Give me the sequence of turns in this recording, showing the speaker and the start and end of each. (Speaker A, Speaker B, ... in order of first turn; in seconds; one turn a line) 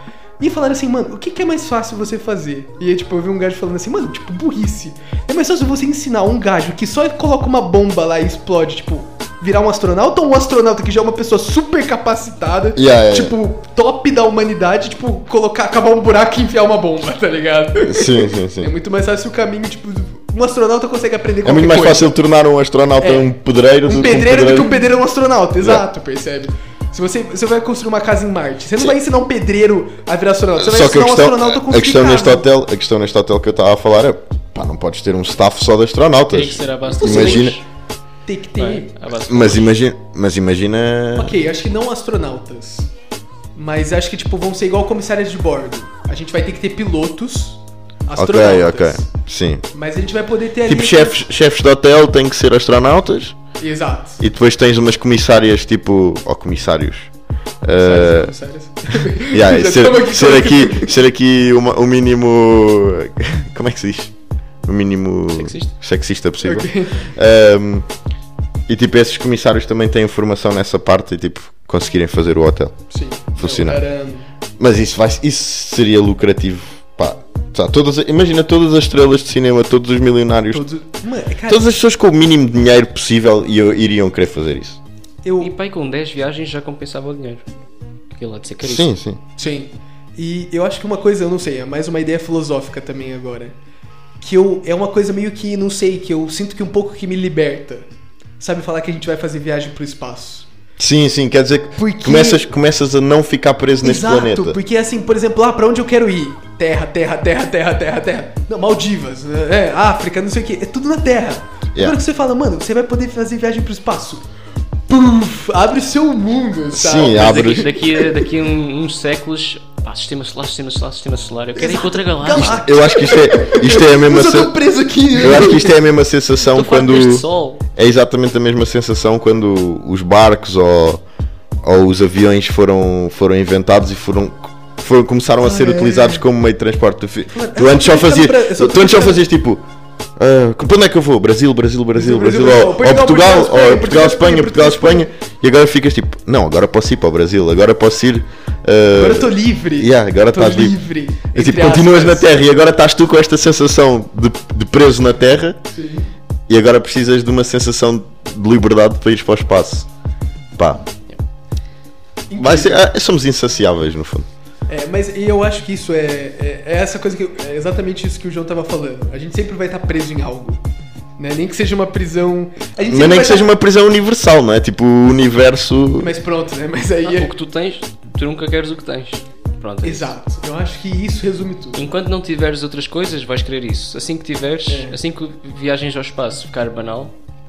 Speaker A: 0.4-22.1
Speaker B: 12.7-13.3
Speaker B: 17.8-18.7
Speaker B: 21.4-24.8
Speaker A: 23.0-23.3
Speaker A: 23.8-32.5
Speaker B: 30.6-37.6
Speaker C: 36.3-37.6
Speaker A: 37.0-37.6
Speaker A: 38.2-38.9
Speaker C: 38.6-39.8
Speaker B: 39.3-41.4
Speaker A: 41.1-42.9
Speaker A: 43.5-49.0
Speaker B: 48.1-49.6
Speaker A: 49.7-51.2
Speaker B: 50.6-53.4
Speaker A: 53.6-54.2
Speaker B: 54.2-57.1
Speaker B: 57.6-58.3
Speaker A: 57.7-60.9
Speaker B: 59.3-64.1
Speaker B: 64.6-67.9
Speaker C: 65.3-65.7
Speaker A: 66.4-67.0
Speaker B: 68.7-72.8
Speaker A: 72.9-74.3
Speaker B: 73.4-73.8
Speaker B: 74.6-80.6
Speaker A: 80.5-81.7
Speaker B: 81.5-84.8
Speaker A: 85.2-85.5
Speaker C: 85.4-87.5
Speaker C: 88.1-88.9
Speaker B: 88.6-89.2
Speaker A: 89.4-93.5
Speaker A: 94.2-97.8
Speaker A: 98.4-100.5
Speaker B: 100.8-104.6
Speaker A: 101.8-102.4
Speaker A: 103.8-114.3
Speaker A: 114.9-118.3
Speaker B: 116.7-117.7
Speaker C: 116.9-122.6
Speaker A: 121.6-125.8
Speaker B: 122.4-124.5
Speaker B: 125.1-131.0
Speaker C: 126.5-127.6
Speaker B: 131.6-139.6
Speaker A: 135.4-136.2
Speaker A: 137.3-139.2
Speaker B: 140.2-150.8
Speaker A: 141.9-145.1
Speaker A: 148.9-152.3
Speaker B: 151.3-155.6
Speaker A: 155.7-156.1
Speaker B: 156.5-159.9
Speaker B: 160.6-160.8
Speaker A: 162.3-162.8
Speaker B: 162.4-164.3
Speaker A: 164.7-170.6
Speaker A: 171.2-173.5
Speaker B: 172.8-176.1
Speaker A: 176.0-177.3
Speaker C: 177.0-180.1
Speaker A: 179.8-181.8
Speaker C: 181.7-187.1
Speaker A: 184.7-185.0